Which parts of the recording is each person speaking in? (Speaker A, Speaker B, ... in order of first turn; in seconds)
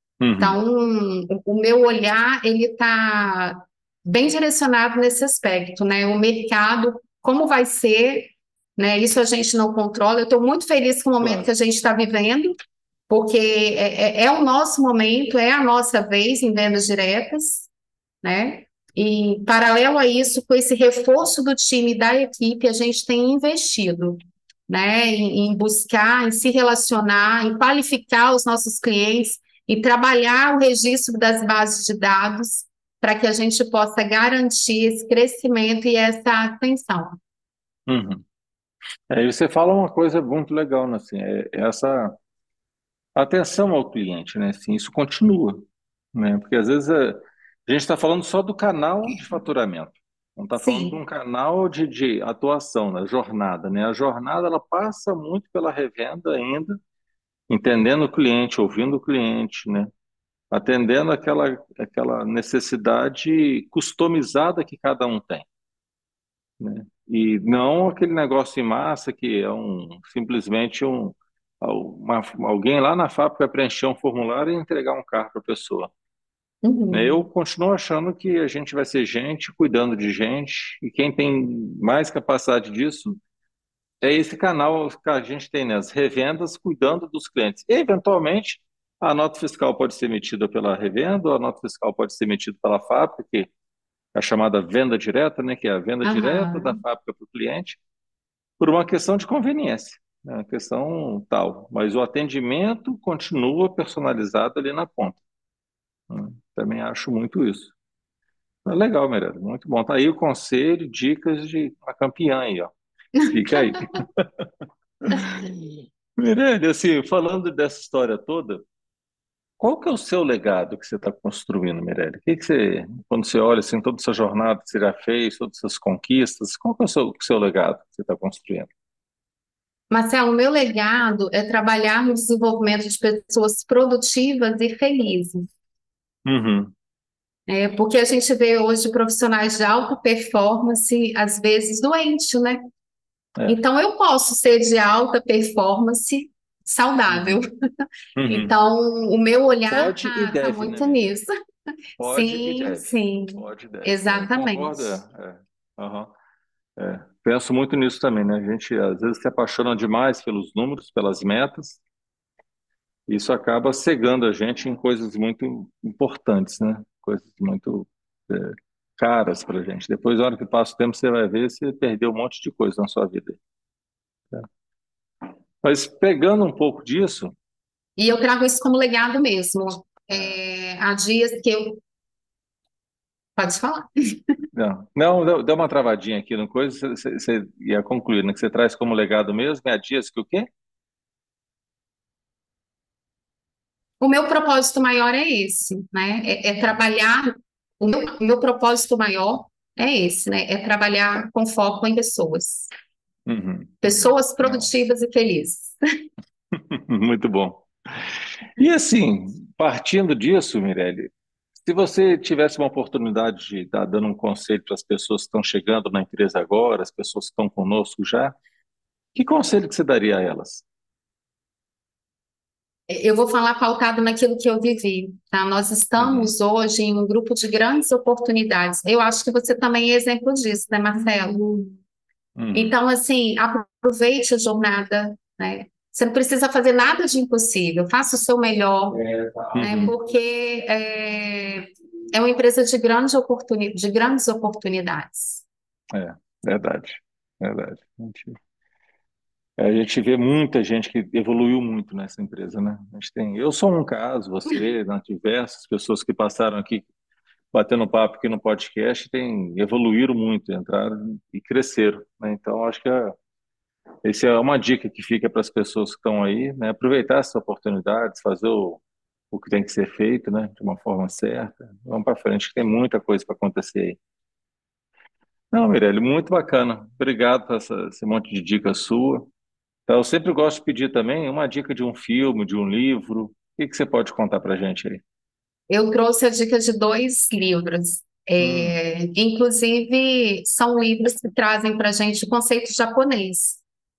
Speaker A: 0.2-0.6, 11.2-11.5, 37.9-38.2, 39.1-42.1, 43.1-56.8, 57.5-59.9, 60.5-65.5, 66.6-75.9, 76.9-83.2, 84.0-93.5, 94.1-97.8, 98.6-105.2, 106.1-107.7, 108.6-112.7, 113.3-114.5, 115.0-118.6, 119.6-128.7, 136.2-136.7, 147.1-147.4, 148.2-148.5, 149.7-151.0, 152.0-156.1, 156.8-161.8, 163.1-173.4, 175.6-177.3, 184.5-190.5, 203.2-204.7, 206.5-218.3, 219.1-220.6, 226.0-226.3, 232.3-232.8, 239.5-239.9, 245.9-248.4, 249.6-256.9, 257.5-263.1, 264.0-274.0, 275.5-279.3, 279.9-285.0, 288.4-288.8
Speaker B: 0.4-12.6, 13.1-17.7, 18.2-37.2, 50.5-51.0, 76.6-77.2, 96.0-96.8, 113.2-113.9, 129.9-135.5, 137.5-142.6, 143.4-147.5, 148.2-151.3, 152.0-155.0, 178.0-181.8, 183.4-184.2, 194.0-202.7, 203.8-205.8, 222.9-231.7, 232.5-245.4, 285.7-293.6